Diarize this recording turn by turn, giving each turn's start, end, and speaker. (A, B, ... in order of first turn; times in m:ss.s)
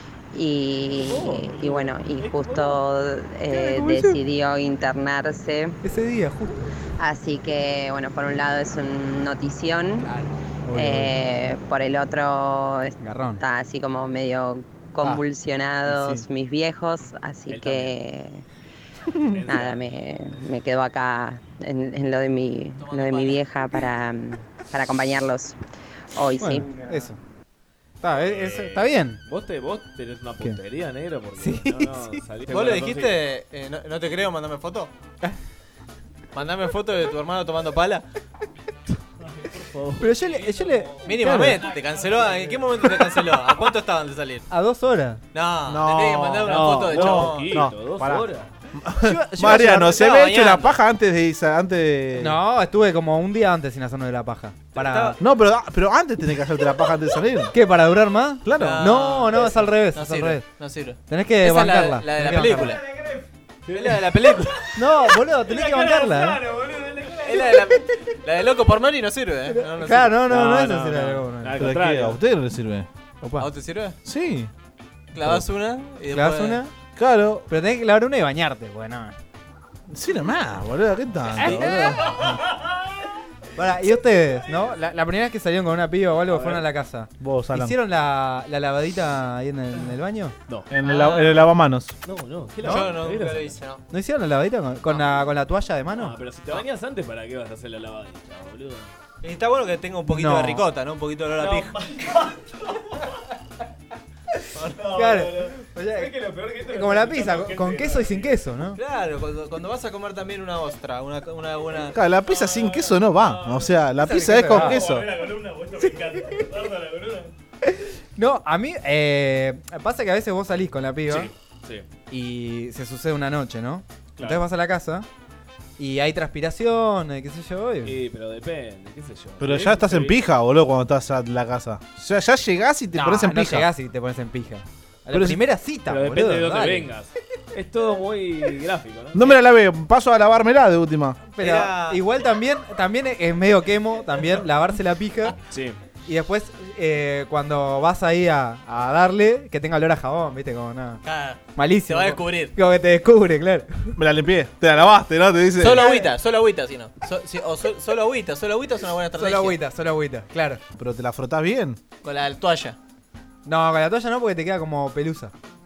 0:00.3-0:05.8 A
0:01.0-0:02.8 B
0:03.5-0:04.2 C
0:05.8-0:06.7 C
0:07.0-0:10.1 A
0:10.6-0:11.1 C
0:10.7-0:18.4 A
0:13.0-0:13.4 C
0:15.8-0:16.2 C
0:17.5-0:18.0 B
0:19.3-0:19.8 B
0:19.5-0:25.6 A
0:22.8-0:23.4 D
0:26.1-0:26.7 A
0:26.4-0:27.2 C
0:28.0-0:29.2 C
0:28.2-0:33.2 B
0:31.4-0:32.2 C
0:32.5-0:34.9 D
0:36.3-0:38.0 D
0:39.2-0:41.0 B
0:40.0-0:41.7 C
0:41.0-0:44.4 D
0:41.7-0:42.7 B
0:44.5-0:45.2 C
0:45.3-0:47.6 D
0:45.7-0:52.4 E
0:46.4-0:48.5 B
0:49.0-0:50.0 C
0:49.9-0:50.8 D
0:52.1-0:55.2 C
0:54.7-0:55.2 D
0:55.2-0:57.5 E
0:57.5-1:00.4 C
0:58.4-0:58.8 E
0:58.6-1:02.8 D
1:01.1-1:02.7 C
1:02.8-1:07.5 B
1:03.7-1:04.6 D
1:04.7-1:06.4 C
1:07.2-1:10.2 D
1:09.5-1:11.6 C
1:10.2-1:12.2 B
1:11.6-1:12.9 E
1:13.2-1:13.5 C
1:13.4-1:14.0 D
1:14.0-1:14.5 E
1:15.1-1:16.6 D
1:16.1-1:16.7 C
1:17.0-1:17.4 E
1:17.5-1:19.2 C
1:19.9-1:22.1 E
1:21.4-1:22.4 B
1:21.4-1:22.4 C
1:23.6-1:30.3 C
1:26.3-1:26.6 B
1:27.2-1:27.8 E
1:30.7-1:31.9 E
1:30.8-1:31.4 D
1:32.0-1:33.6 B
1:32.6-1:33.8 D
1:33.9-1:36.2 C
1:34.8-1:35.2 D
1:35.9-1:38.9 B
1:39.2-1:41.8 D
1:40.0-1:40.6 C
1:41.3-1:42.9 B
1:44.6-1:48.4 B
1:44.9-1:46.1 C
1:46.6-1:48.8 C
1:48.7-1:52.0 D
1:51.9-1:55.1 E
1:52.2-1:53.9 B
1:54.0-1:54.8 C
1:54.4-1:57.3 B
1:55.8-1:56.5 C
1:57.6-2:01.3 C
2:01.1-2:01.9 B
2:02.1-2:05.1 C
2:04.2-2:04.4 B
2:05.8-2:08.0 C
2:07.8-2:10.2 B
2:09.4-2:13.7 E
2:12.9-2:16.9 C
2:15.1-2:15.4 E
2:15.8-2:19.3 B
2:19.1-2:21.2 E
2:21.3-2:25.4 C
2:21.4-2:22.0 D
2:25.5-2:25.8 B
2:26.0-2:31.0 C
2:31.0-2:32.5 D
2:31.5-2:33.9 C
2:34.0-2:35.9 E
2:35.6-2:39.6 D
2:35.7-2:36.1 C
2:39.1-2:40.6 C
2:40.8-2:41.8 E
2:42.0-2:42.8 D
2:43.4-2:45.3 C